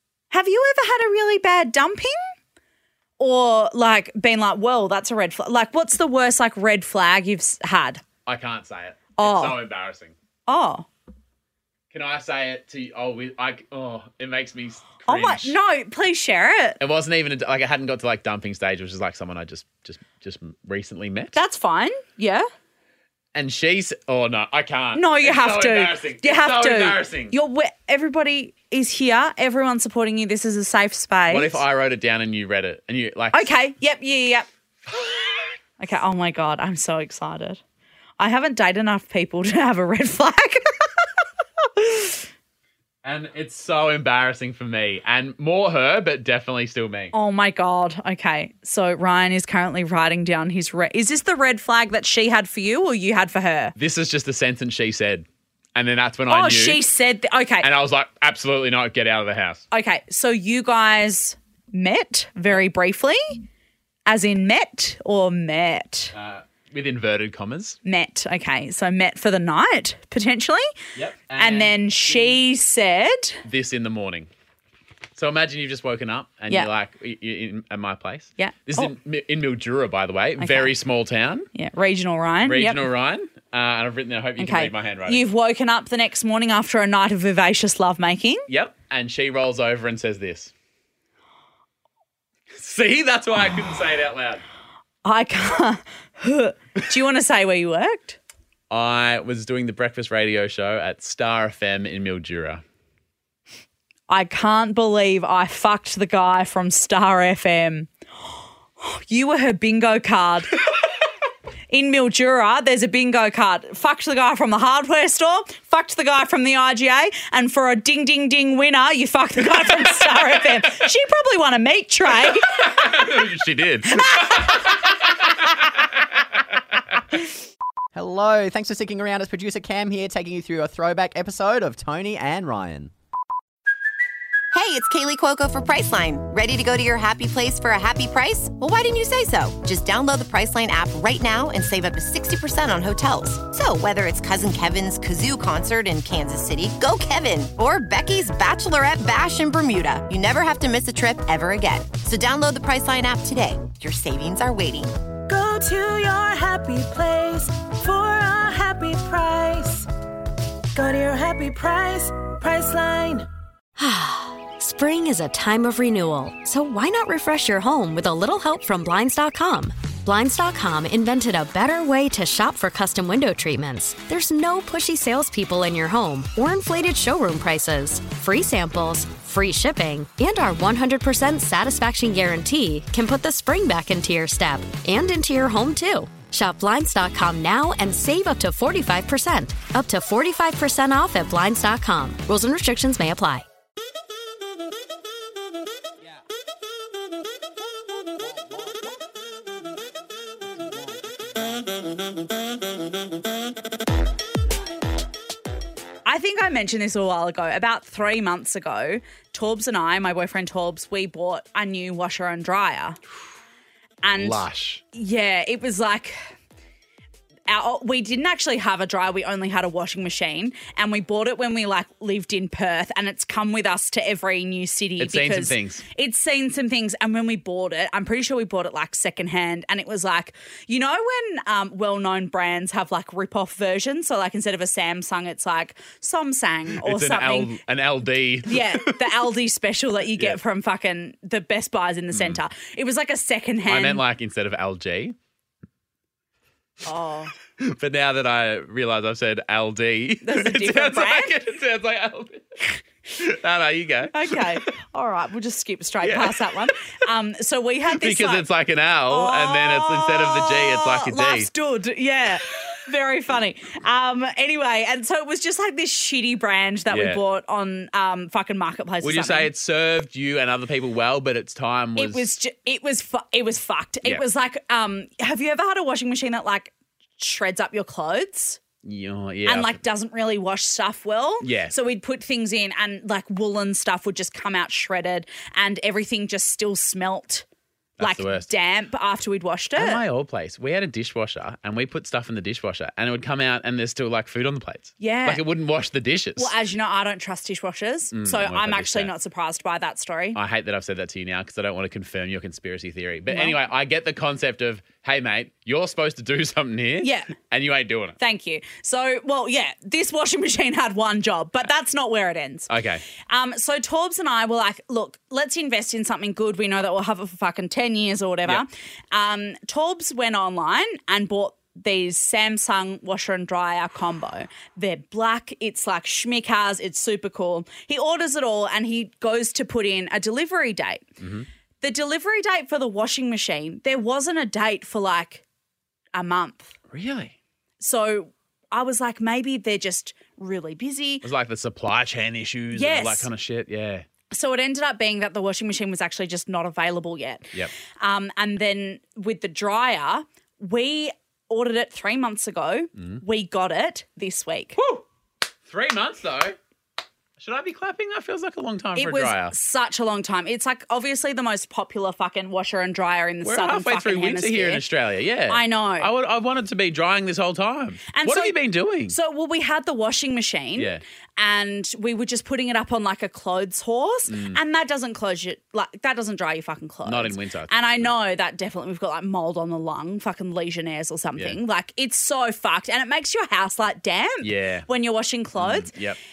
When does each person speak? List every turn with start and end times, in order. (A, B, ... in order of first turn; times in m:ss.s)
0:00.3-0:02.2 A
0:03.2-0:08.0 A
0:08.3-0:10.1 B
0:09.2-0:09.6 A
0:10.5-0:10.9 A
0:11.9-0:15.6 B
0:15.1-0:16.8 A
0:16.8-0:21.4 B
0:21.4-0:22.5 A
0:23.3-0:27.3 B
0:25.0-0:31.6 A
0:31.3-0:33.5 B
0:33.3-0:34.5 A
0:34.9-0:35.6 B
0:35.8-0:37.6 A
0:38.2-0:41.1 A
0:41.6-0:42.3 A
0:43.0-0:47.1 B
0:47.1-0:53.7 A
0:53.8-0:56.8 B
0:56.3-0:57.7 A
0:57.6-0:59.6 B
0:59.7-1:03.4 A
1:04.1-1:06.1 A
1:06.1-1:07.8 B
1:07.8-1:10.7 A
1:11.0-1:12.4 B
1:11.4-1:13.4 A
1:13.4-1:14.3 B
1:15.2-1:21.5 B
1:18.4-1:18.9 A
1:20.4-1:20.7 A
1:21.5-1:22.8 A
1:22.4-1:25.2 B
1:24.4-1:28.4 A
1:28.5-1:30.5 B
1:32.5-1:34.4 B
1:35.0-1:38.2 A
1:38.7-1:42.6 B
1:44.1-1:47.9 A
1:48.8-1:50.6 A
1:51.7-2:03.0 A
2:02.6-2:04.8 B
2:03.9-2:04.5 A
2:08.0-2:12.9 C
2:14.5-2:35.0 D
2:35.3-2:39.9 E
2:40.7-2:43.3 E
2:43.8-3:13.5 F
3:26.0-3:33.0 A
3:34.0-3:36.3 A
3:34.2-3:34.8 B
3:37.5-3:57.6 A
3:45.0-3:45.8 B
3:56.8-3:59.2 B
3:58.5-4:04.0 A
4:02.1-4:02.4 B
4:03.7-4:05.2 B
4:06.8-4:07.3 A
4:07.6-4:14.7 B
4:10.2-4:11.4 A
4:14.1-4:18.4 A
4:16.0-4:16.7 B
4:18.0-4:21.5 B
4:19.1-4:29.5 A
4:26.9-4:27.2 B
4:29.0-4:32.3 B
4:32.0-4:38.6 A
4:38.8-4:39.8 B
4:39.5-4:47.4 A
4:41.4-4:41.8 B
4:48.0-4:48.5 B
4:48.0-4:50.0 A
4:49.8-4:56.5 B
4:55.0-4:55.4 A
4:56.4-5:00.4 A
4:58.1-4:59.1 B
5:00.4-5:08.2 B
5:03.3-5:03.6 A
5:07.0-5:07.4 A
5:08.2-5:12.7 A
5:12.7-5:13.0 B
5:13.2-5:31.1 A
5:31.2-5:31.5 B
5:31.8-5:35.4 A
5:36.1-5:36.8 A
5:36.9-5:37.4 B
5:37.8-5:41.2 A
5:41.2-5:44.0 B
5:42.7-5:43.3 A
5:44.3-5:54.8 A
5:53.0-5:53.2 B
5:54.8-5:55.0 B
5:55.7-5:56.6 B
5:57.4-5:59.6 B
5:59.0-6:04.8 A
6:03.4-6:09.2 B
6:05.5-6:06.1 A
6:08.1-6:08.6 A
6:09.1-6:25.9 A
6:10.8-6:11.0 B
6:14.3-6:14.6 B
6:17.0-6:18.1 B
6:24.4-6:24.9 B
6:25.6-6:26.2 B